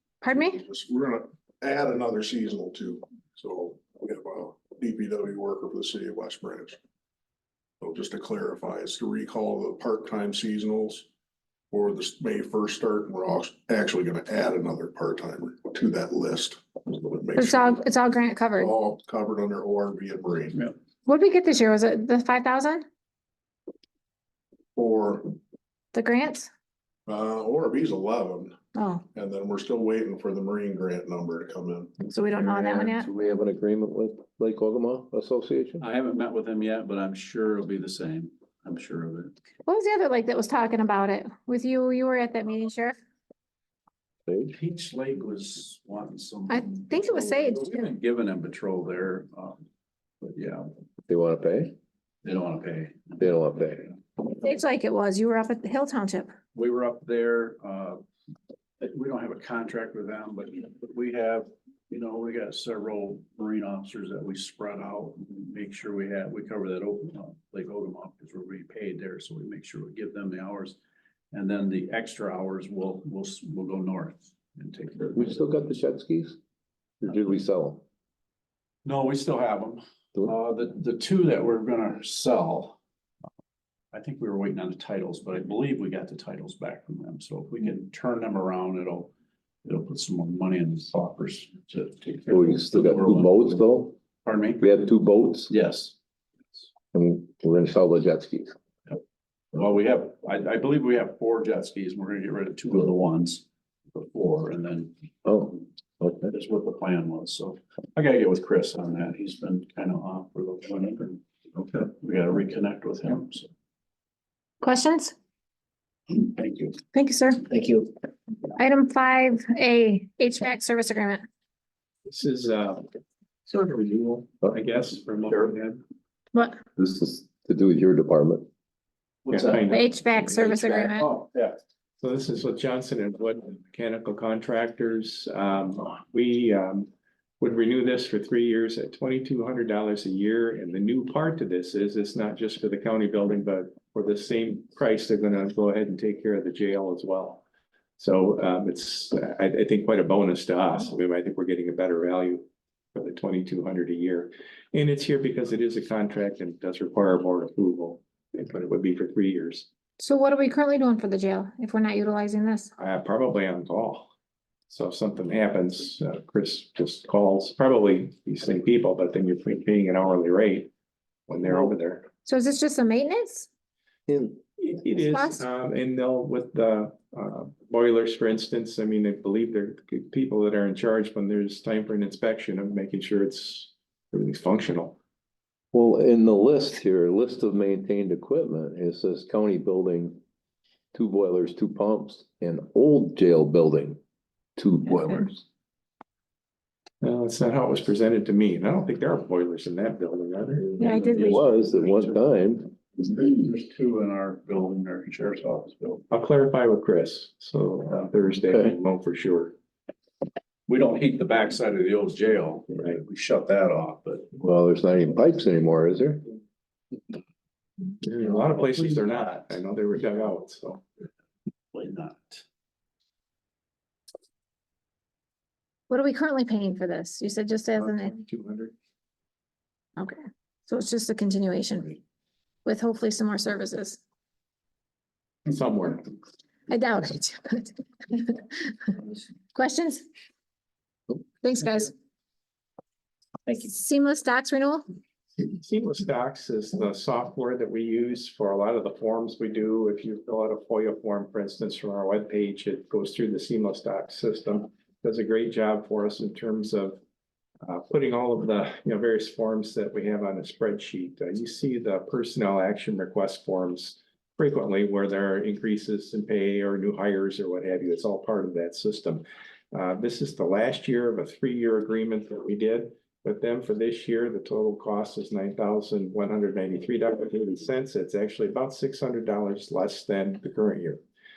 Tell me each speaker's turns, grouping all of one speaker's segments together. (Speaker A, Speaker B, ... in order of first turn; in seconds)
Speaker A: 0.2-0.6, 17.4-18.7, 21.1-22.9, 25.9-26.5, 28.8-29.0, 32.1-33.1, 39.7-43.0, 46.5-47.9, 54.4-56.3, 114.6-115.1, 116.9-117.6, 118.6-121.2, 126.3-126.6, 129.7-131.1, 160.0-162.7, 172.2-173.5, 175.0-175.5, 200.8-201.5, 225.9-228.2, 230.0-232.0, 232.7-234.0, 236.7-239.0, 239.5-240.1, 241.4-241.9, 243.5-244.8
Speaker B: 0.3-6.8, 7.8-11.1, 11.7-17.8, 18.6-20.7, 24.8-25.4, 27.1-28.6, 29.1-31.9
Speaker C: 32.4-35.8, 44.3-44.5, 51.1-51.8, 53.2-54.0, 75.2-76.4, 77.0-77.8, 92.3-94.0, 94.6-95.5, 96.9-98.5, 105.2-106.3, 126.8-128.5, 174.1-174.4, 185.7-190.2, 190.9-194.0, 194.6-195.4, 200.9-202.8, 208.4-208.8, 214.4-216.3
Speaker D: 35.8-39.4, 44.5-49.6, 50.2-50.7, 52.2-53.3, 56.5-58.0, 58.8-70.8, 71.3-75.4, 78.8-82.8, 83.9-89.1, 89.6-93.6, 94.2-94.6, 95.5-96.0, 99.5-104.9, 106.3-113.5, 116.1-116.8, 124.9-125.8, 129.3-131.6, 200.8-202.2, 203.0-206.0, 210.7-214.3, 218.2-219.6, 221.7-222.4
Speaker E: 122.1-122.8, 123.5-125.5, 129.3-129.9, 132.0-136.9, 137.4-147.4, 148.0-159.7, 162.8-164.1, 164.7-170.7, 171.3-172.1, 174.6-185.0, 197.0-200.7, 206.1-209.6, 218.1-220.8, 227.8-228.7, 235.5-236.1, 245.4-257.0, 257.6-281.0